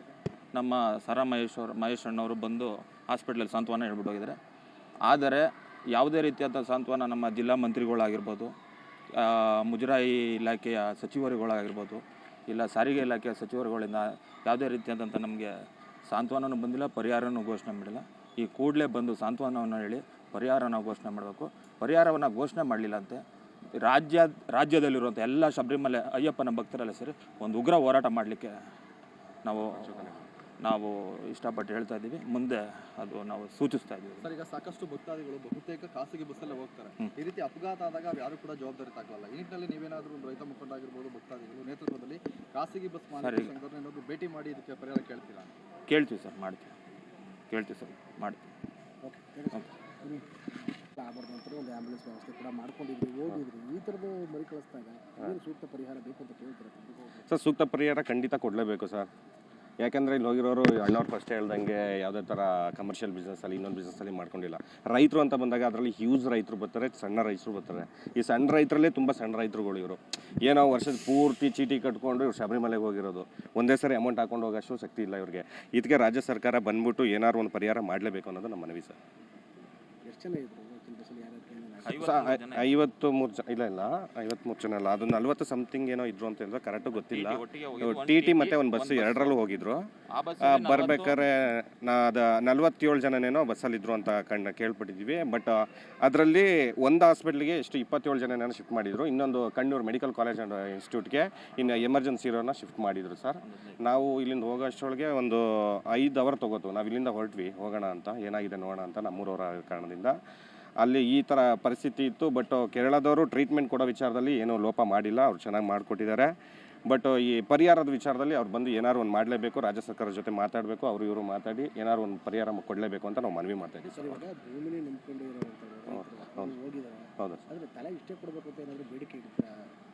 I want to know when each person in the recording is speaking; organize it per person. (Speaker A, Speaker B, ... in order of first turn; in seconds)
Speaker A: 0.5-4.4, 5.0-8.5, 9.1-23.2, 23.8-28.6, 29.4-34.3, 43.1-43.5, 45.9-46.7, 47.5-48.5, 81.8-82.7, 86.9-89.5, 90.1-91.2, 103.4-103.8
Speaker B: 29.7-30.2, 57.2-59.1, 59.8-79.0, 82.0-89.9, 90.4-110.2, 110.8-116.3, 116.9-124.2, 125.9-126.5
Speaker C: 34.2-45.5
Speaker D: 49.0-50.3, 51.0-57.2, 80.0-82.1, 123.9-129.5